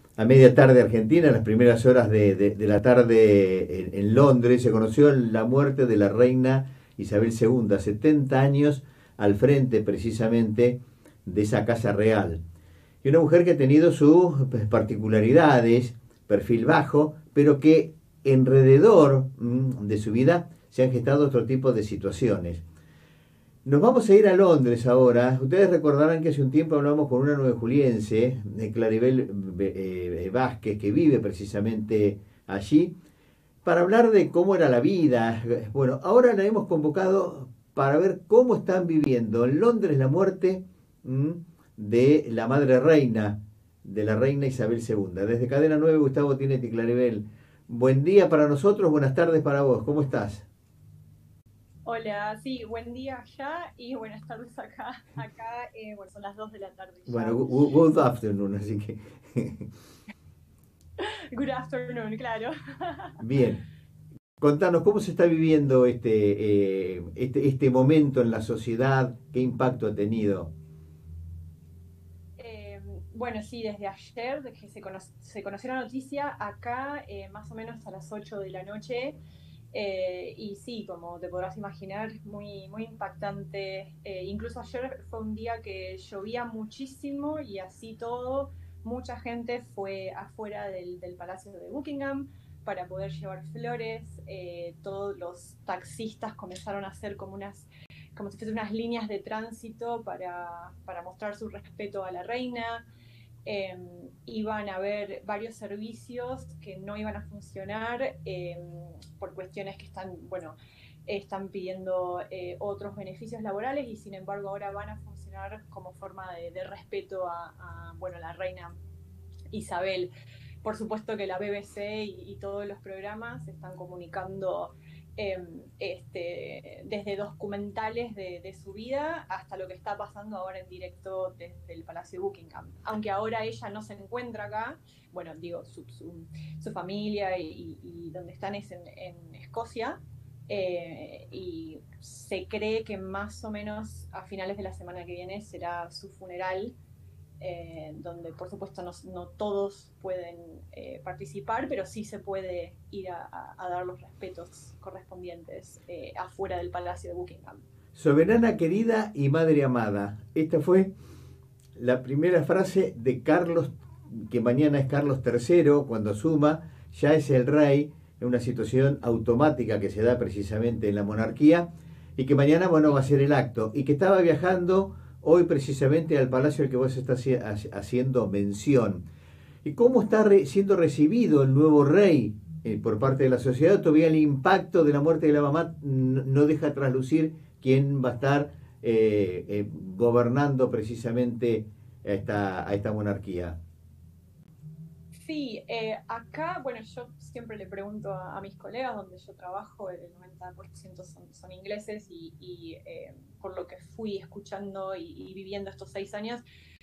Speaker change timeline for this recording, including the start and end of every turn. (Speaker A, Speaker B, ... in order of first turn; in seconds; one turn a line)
Speaker A: 0.2-12.4
Speaker A: 13.0-22.6
Speaker A: 23.6-32.9
Speaker A: 33.6-50.5
Speaker B: 51.9-57.5
Speaker A: 57.1-59.7
Speaker B: 61.0-63.4
Speaker A: 63.2-63.6
Speaker A: 64.4-70.5
Speaker B: 72.4-79.2
Speaker B: 79.7-102.9
Speaker B: 103.5-118.8
Speaker B: 119.5-120.1
Speaker B: 120.6-140.0
Speaker B: 140.5-146.8
Speaker B: 147.4-157.6
Speaker A: 157.9-160.9
Speaker A: 161.8-179.0
Speaker A: 179.6-193.6
Speaker B: 195.2-206.4